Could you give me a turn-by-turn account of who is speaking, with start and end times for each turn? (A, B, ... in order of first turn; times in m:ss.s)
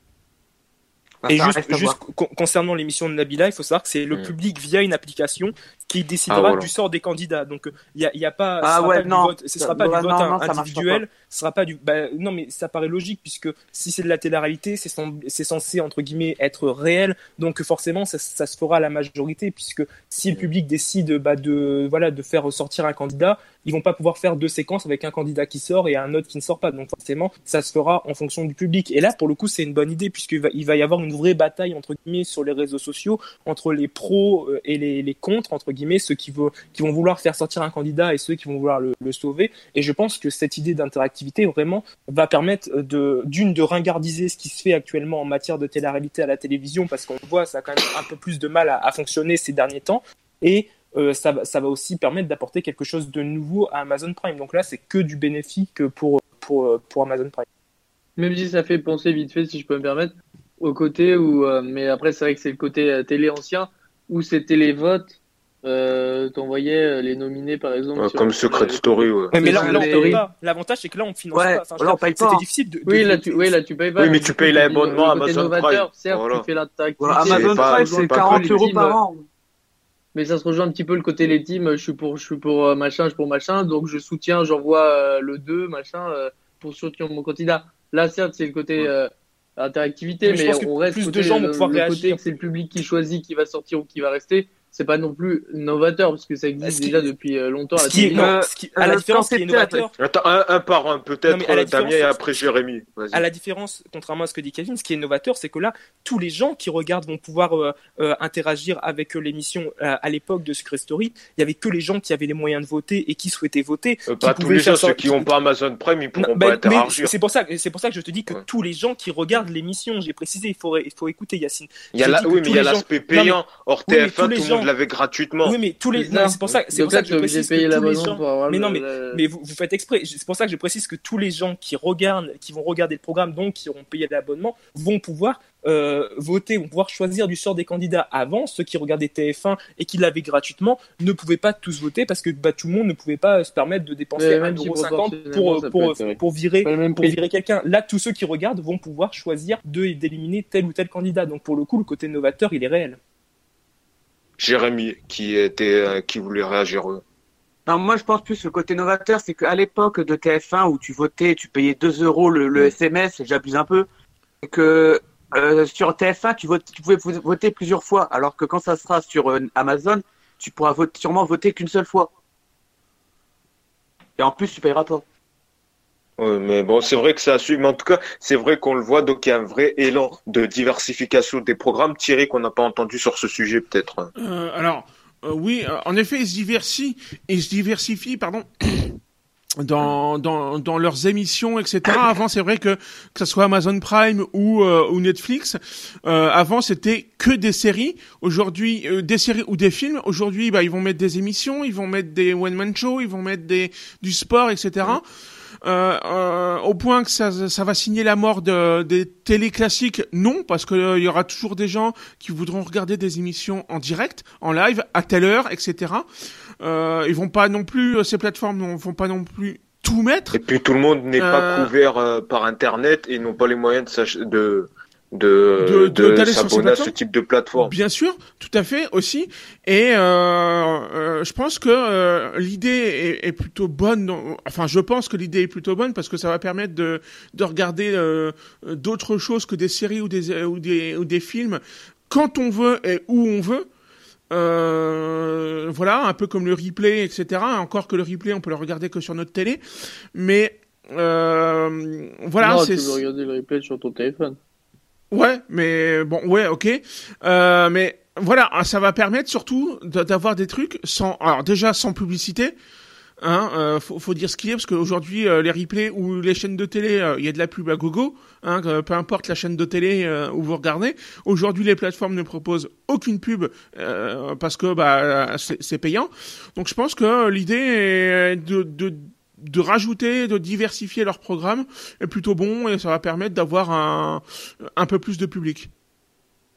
0:01.2-0:02.0 A
0:01.3-0:57.4 B
0:06.3-0:06.7 C
0:08.6-0:11.0 A
0:58.2-1:10.2 D
1:08.0-1:09.6 C
1:09.3-1:13.6 B
1:09.4-1:10.2 A
1:11.3-1:12.4 A
1:12.9-1:19.0 D
1:14.0-1:16.5 C
1:17.0-1:19.2 A
1:17.2-1:18.6 C
1:20.1-1:38.3 D
1:30.2-1:32.2 B
1:36.6-1:37.1 B
1:37.8-1:39.9 B
1:37.8-1:39.8 A
1:40.0-1:43.2 C
1:41.3-1:42.5 B
1:43.1-1:55.3 B
1:54.1-1:57.1 C
1:56.2-2:04.7 B
2:01.9-2:05.6 C
2:05.4-2:33.0 B
2:05.9-2:09.2 D
2:24.2-2:27.2 D
2:34.4-2:37.0 C
2:37.7-2:43.9 A
2:44.4-2:52.1 A
2:54.2-2:55.0 A
2:56.2-3:04.1 C
3:04.2-3:08.9 E
3:09.6-3:25.1 E
3:25.6-3:36.0 E
3:36.6-3:40.4 E
3:40.3-3:47.7 C
3:41.2-3:41.7 E
3:45.6-3:46.9 E
3:47.6-4:03.7 E
4:04.3-4:09.6 E
4:10.1-4:13.0 E
4:12.4-4:14.4 D
4:15.1-4:22.5 E
4:23.2-4:44.2 E
4:44.8-4:45.7 E